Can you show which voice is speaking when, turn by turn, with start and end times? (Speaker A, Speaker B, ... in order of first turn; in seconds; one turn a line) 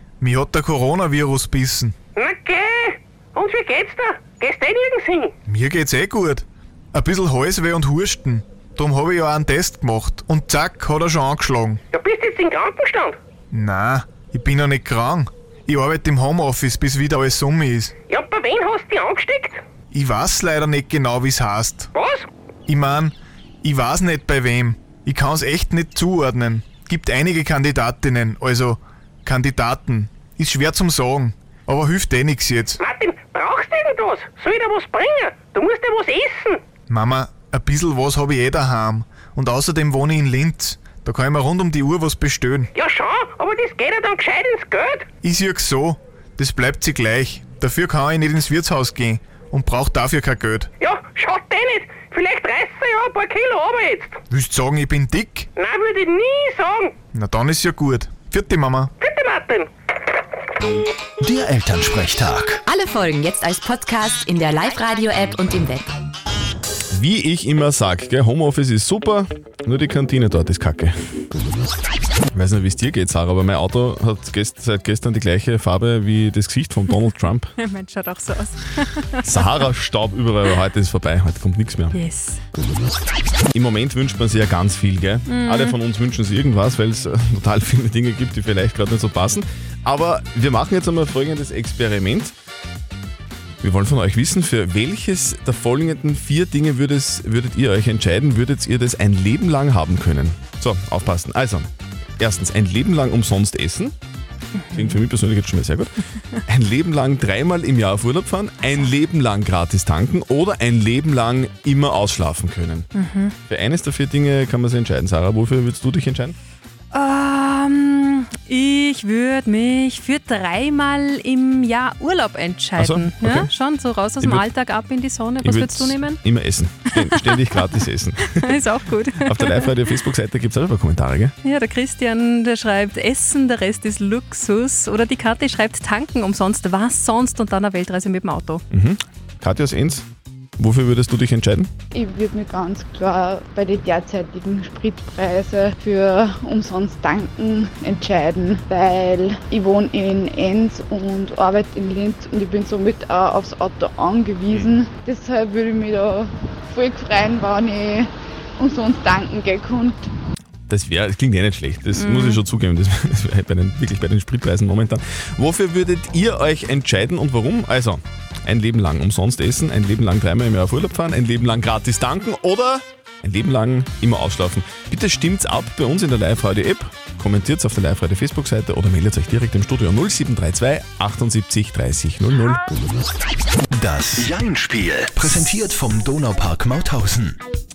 Speaker A: 0.2-1.9
Speaker B: 2.1-5.3
Speaker A: 5.5-11.8
Speaker B: 11.9-13.2
Speaker A: 13.5-17.9
Speaker B: 18.1-19.6
Speaker A: 19.9-21.9
Speaker B: 21.9-22.3
Speaker A: 22.7-32.8
Speaker B: 32.8-36.6
Speaker A: 36.9-42.7
Speaker B: 42.7-45.1
Speaker A: 45.2-50.7
Speaker B: 50.8-54.2
Speaker A: 54.3-55.5
Speaker B: 55.5-56.9
Speaker A: 57.1-58.9
Speaker B: 59.0-59.7
Speaker C: 61.2-62.6
Speaker D: 62.6-65.9
Speaker E: 66.9-70.9
Speaker E: 72.3-77.5
Speaker F: 77.6-79.5
Speaker E: 79.2-82.0
Speaker F: 81.9-82.4
Speaker E: 83.5-92.3
Speaker F: 85.3-85.8
Speaker E: 93.6-103.9
Speaker F: 104.5-105.0
Speaker E: 104.7-105.9
Speaker E: 106.4-112.9
Speaker F: 112.9-113.3
Speaker E: 113.5-116.3
Speaker F: 116.9-126.2
Speaker E: 122.8-123.5
Speaker E: 124.2-124.5
Speaker E: 125.4-128.6
Speaker F: 126.9-127.5
Speaker F: 128.3-129.8
Speaker E: 129.2-131.3
Speaker F: 131.4-138.6
Speaker E: 138.7-140.0
Speaker E: 140.6-141.7
Speaker G: 141.9-158.1
Speaker G: 158.6-160.1
Speaker E: 160.7-182.6
Speaker F: 161.9-162.4
Speaker C: 183.7-187.4